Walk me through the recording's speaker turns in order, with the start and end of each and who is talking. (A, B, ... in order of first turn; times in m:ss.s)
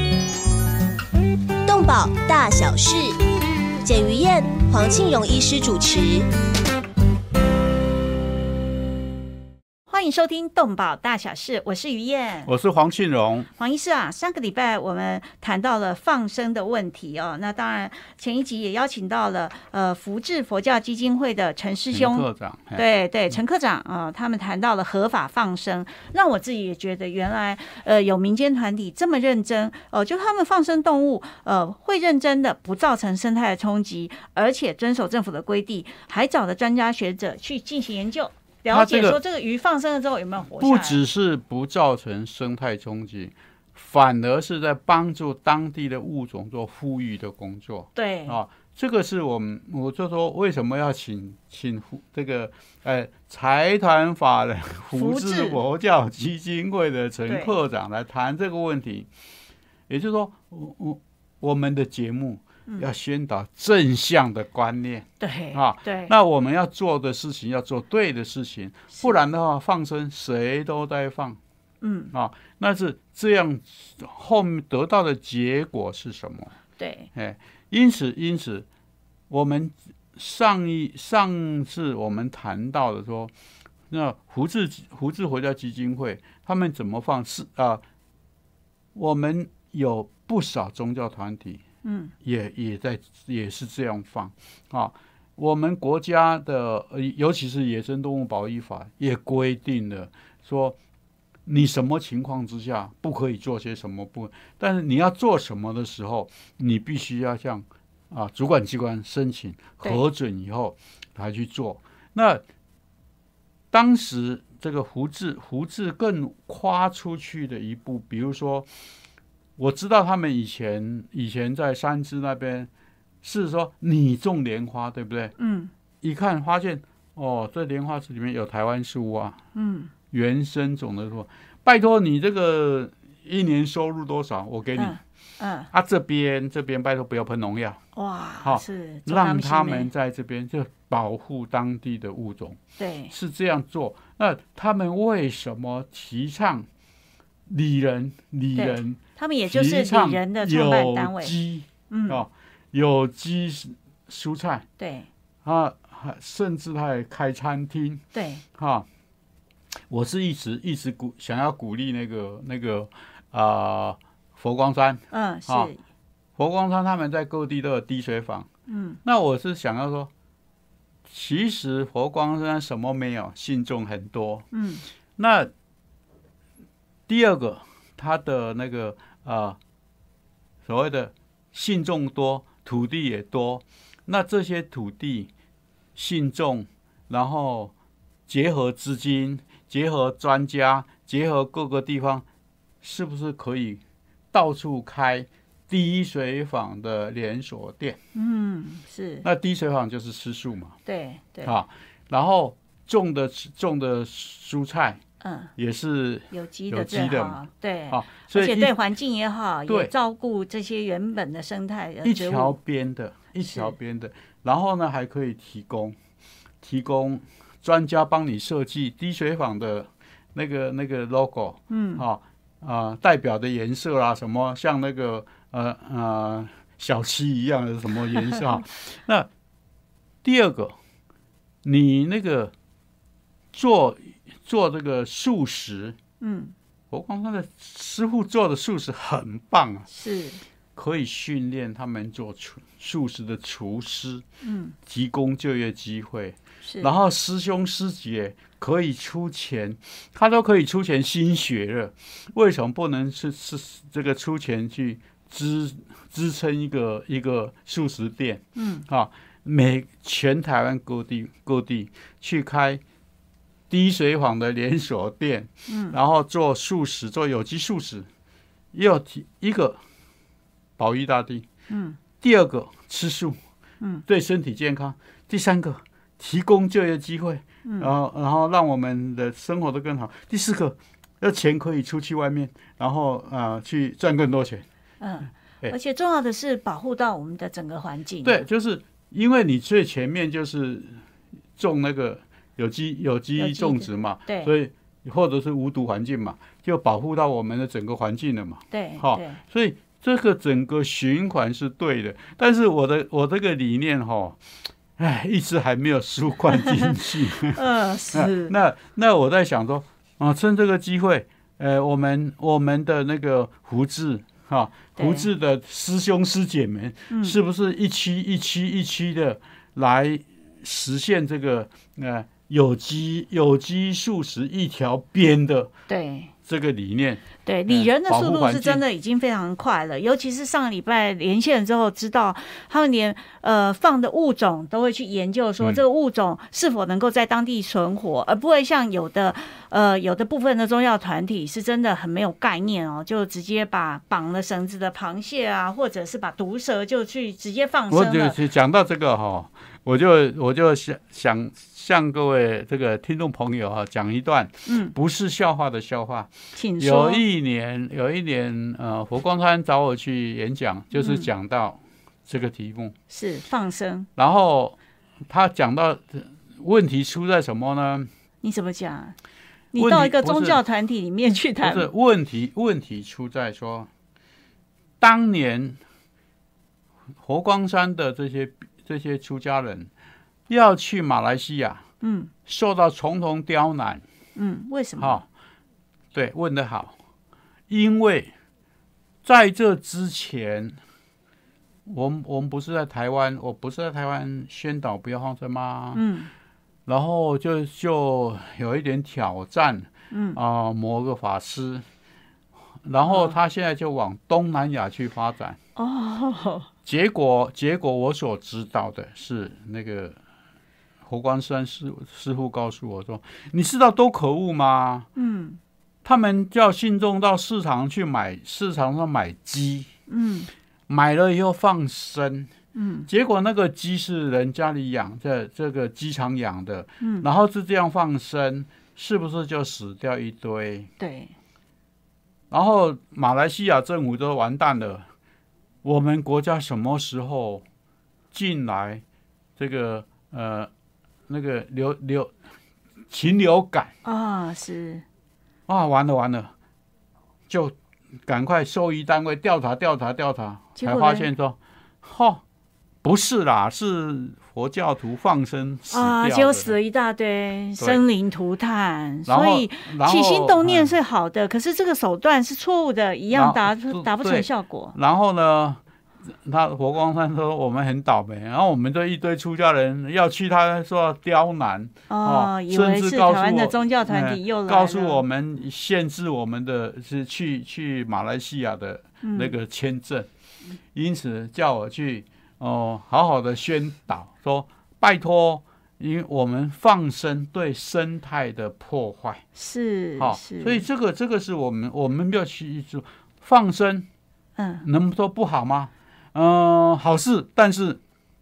0:01.7-0:03.2 A
0:03.8-0:06.3 A
0:09.9-0:12.5 B
0:12.5-0:13.5 C
0:13.6-0:41.0 B
0:21.9-0:22.8 C
0:38.7-0:39.2 C
0:40.6-0:59.1 C
0:48.0-0:48.4 B
0:54.9-0:55.6 B
0:57.3-0:57.5 B
0:59.9-1:11.4 C
1:05.2-1:06.1 B
1:11.8-1:12.1 B
1:12.1-1:16.5 C
1:16.8-1:17.1 B
1:17.1-1:18.7 C
1:19.3-1:23.3 C
1:23.9-1:27.8 C
1:28.9-1:31.6 C
1:31.8-1:32.1 B
1:32.2-1:40.8 C
1:41.4-1:52.4 C
1:53.7-1:58.7 C
1:59.6-2:02.7 C
2:03.2-2:05.3 C
2:05.4-2:05.7 B
2:06.0-2:09.4 C
2:09.6-2:09.9 B
2:10.1-2:15.0 C
2:14.8-2:15.7 B
2:15.7-2:17.8 C
2:18.0-2:19.9 B
2:18.4-2:22.6 C
2:22.8-2:23.1 B
2:23.1-2:26.7 C
2:27.5-2:34.6 C
2:28.6-2:31.3 B
2:31.9-2:32.2 B
2:34.8-2:35.1 B
2:35.4-2:38.0 C
2:38.1-2:38.4 B
2:38.6-2:38.9 C
2:39.9-2:45.7 C
2:45.1-2:45.8 B
2:46.4-2:48.5 C
2:48.7-2:49.0 B
2:49.0-2:50.1 C
2:51.1-2:54.5 C
2:54.5-2:54.8 B
2:55.2-2:55.5 C
2:57.1-2:59.6 C
3:00.6-3:05.3 C
3:06.0-3:07.7 C
3:08.3-3:12.2 C
3:12.8-3:13.8 C
3:14.3-3:18.0 C
3:18.2-3:19.2 B
3:19.2-3:20.8 C
3:20.8-3:21.5 B
3:21.4-3:25.0 C
3:25.2-3:25.5 B
3:25.6-3:28.7 C
3:26.3-3:32.6 B
3:29.7-3:29.9 C
3:32.0-3:36.0 C
3:33.4-3:33.7 B
3:36.6-3:49.3 C
3:41.7-3:42.0 B
3:50.2-3:50.8 C
3:51.6-3:52.5 C
3:53.5-3:56.0 C
3:56.2-3:56.5 B
3:56.9-3:59.9 C
3:59.9-4:00.4 B
4:00.8-4:04.2 C
4:04.4-4:04.8 B
4:04.9-4:22.8 C
4:06.6-4:06.9 B
4:18.6-4:18.8 B
4:23.7-4:28.1 C
4:25.7-4:26.0 B
4:28.7-4:29.8 C
4:30.8-4:31.5 C
4:31.7-4:32.0 B
4:32.2-4:33.4 C
4:34.1-4:44.6 C
4:37.6-4:37.9 B
4:45.0-4:48.4 B
4:48.2-4:51.0 C
4:51.6-5:04.4 C
4:53.4-4:54.5 B
4:58.7-4:59.4 B
5:05.0-5:07.6 C
5:06.5-5:08.5 B
5:08.1-5:25.7 C
5:15.0-5:15.3 B
5:17.1-5:17.4 B
5:25.9-5:26.3 B
5:26.4-5:28.8 C
5:27.4-5:48.4 B
5:47.9-6:02.9 C
5:54.7-5:54.9 B
5:56.6-5:57.2 B
6:00.9-6:01.3 B
6:03.1-6:04.1 B
6:04.2-6:04.8 C
6:05.3-6:08.1 C
6:08.4-6:09.1 B
6:09.7-6:11.9 B
6:09.8-6:10.6 C
6:11.6-6:13.9 C
6:15.0-6:15.8 C
6:17.2-6:19.9 C
6:20.5-6:21.8 C
6:22.0-6:22.3 B
6:22.4-6:24.0 C
6:24.4-6:25.2 B
6:25.0-6:25.2 C
6:26.1-6:26.9 C
6:27.7-6:28.3 C
6:29.2-6:30.8 C
6:31.9-6:36.0 C
6:35.9-6:36.3 B
6:36.9-6:41.8 C
6:40.1-6:40.4 B
6:42.8-6:45.6 C
6:43.1-6:43.4 B
6:45.8-6:46.7 B
6:46.8-6:50.2 C
6:51.0-6:55.1 C
6:55.2-6:55.6 B
6:56.0-6:59.9 C
7:00.1-7:00.5 B
7:00.9-7:02.5 C
7:02.8-7:03.1 B
7:03.1-7:10.9 C
7:07.0-7:07.2 B
7:11.0-7:11.3 B
7:12.5-7:15.0 C
7:15.8-7:17.6 C
7:18.3-7:19.0 C
7:19.6-7:20.7 C
7:21.3-7:22.3 C
7:23.1-7:23.9 C
7:24.0-7:25.0 B
7:25.7-7:26.5 C
7:27.5-7:32.4 C
7:30.8-7:31.3 B
7:33.0-7:36.8 C
7:35.9-7:44.9 B
7:39.3-7:40.9 C
7:43.3-8:00.3 C
7:52.1-7:55.2 B
7:59.2-7:59.5 B
8:00.9-8:09.4 C
8:09.6-8:10.8 B
8:10.2-8:14.1 C
8:14.6-8:14.8 B
8:14.8-8:18.0 C